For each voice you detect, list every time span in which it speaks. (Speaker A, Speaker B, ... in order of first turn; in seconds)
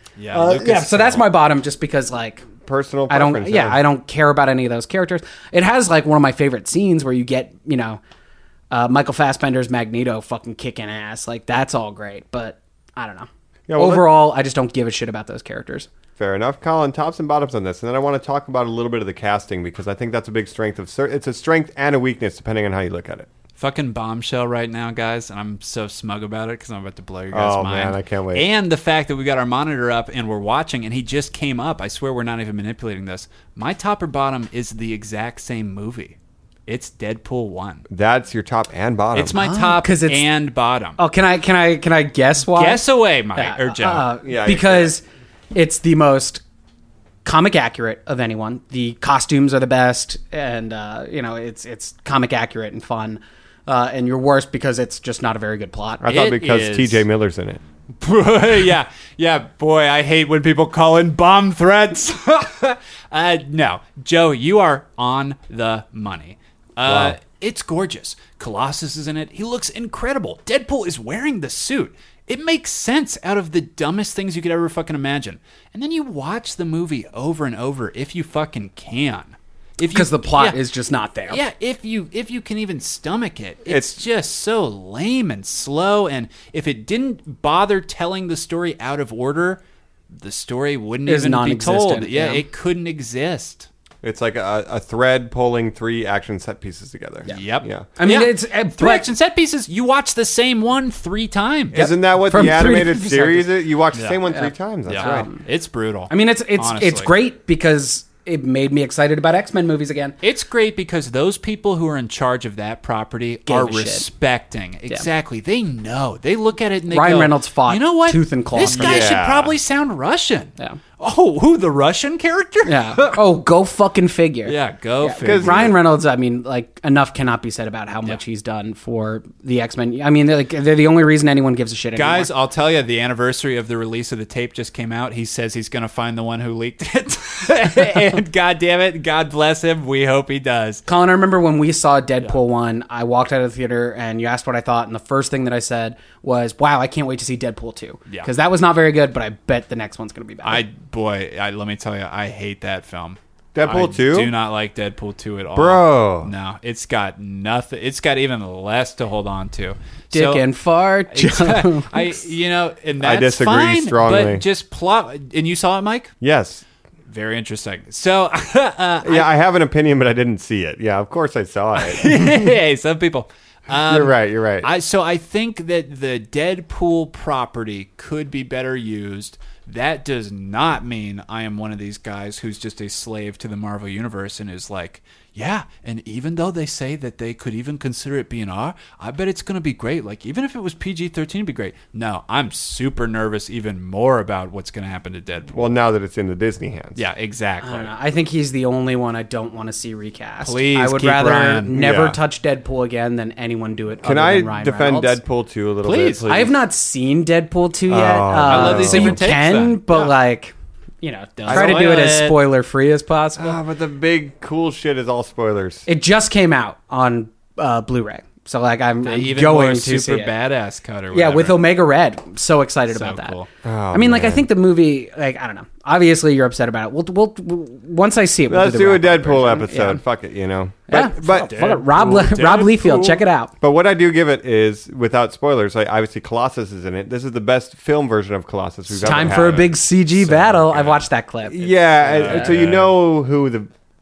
Speaker A: 0.2-1.2, 23.6-36.1, 36.7-37.9, 39.1-41.0, 42.5-44.0, 56.1-57.0, 58.0-80.6, 81.3-89.6, 90.1-93.7, 97.3-101.9, 103.9-104.2, 104.9-107.1, 110.2-123.2, 124.4-125.7, 131.9-140.8, 150.4-160.4, 161.1-166.1, 167.1-169.3, 171.8-195.8, 196.9-197.9, 200.4-201.8, 205.8-206.3, 208.4-210.1, 211.4-212.4, 219.0-221.6, 222.9-223.5, 230.9-233.2, 239.0-241.1, 242.0-242.9
Speaker B: 0.3-2.5, 3.1-8.0, 8.7-15.9, 39.4-40.2, 41.0-42.8, 43.3-46.4, 47.2-56.0, 79.8-81.4, 91.1-92.4, 97.2-99.1, 101.7-103.5, 104.3-105.4, 106.1-110.2, 113.5-114.1, 116.9-119.1, 122.6-132.3, 140.9-150.6, 160.1-162.2, 197.6-205.2, 206.3-213.6, 215.9-220.3, 221.1-223.4, 223.9-230.0, 230.9-233.5, 239.0-242.5
Speaker C: 2.6-3.8, 13.7-14.1, 16.2-23.3, 27.3-28.5, 37.9-39.4, 44.2-44.9, 56.0-57.6, 66.8-67.2, 83.7-84.0, 94.0-97.8, 101.7-105.3, 118.6-119.5, 125.2-125.8, 153.5-154.3, 155.5-156.3, 163.0-164.4, 166.2-166.6, 169.0-172.5, 173.9-174.7, 195.5-197.0, 201.7-202.2, 204.0-206.6, 207.9-209.2, 211.5-212.0, 213.4-215.9, 223.6-224.5, 228.5-231.5, 233.6-239.7, 241.5-243.7